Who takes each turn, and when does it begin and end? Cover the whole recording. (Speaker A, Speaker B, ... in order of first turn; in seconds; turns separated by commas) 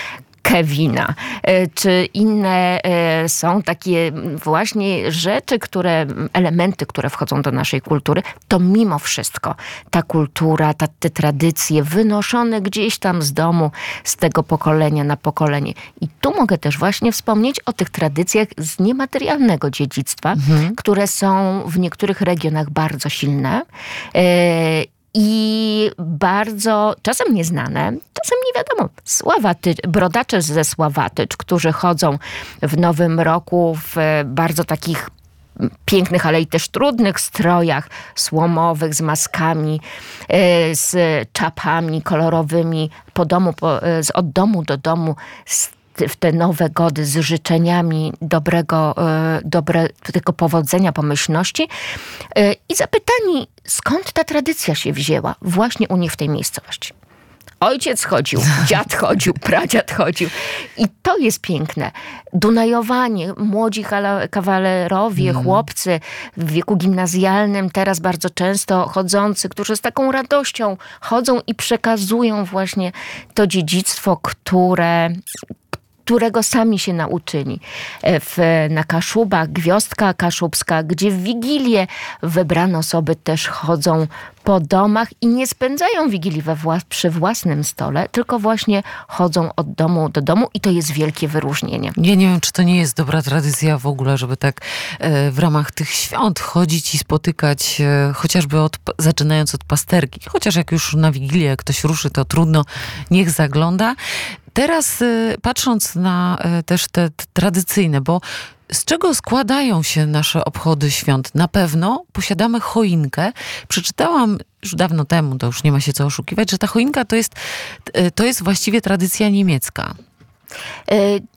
Speaker A: 0.4-51.7, Speaker B: 20.4-20.8, Speaker A: 52.3-56.9, Speaker A: 57.6-75.2, Speaker B: 65.2-65.6, Speaker A: 76.0-92.0, Speaker B: 92.0-104.0, Speaker B: 104.5-119.9, Speaker A: 120.9-121.2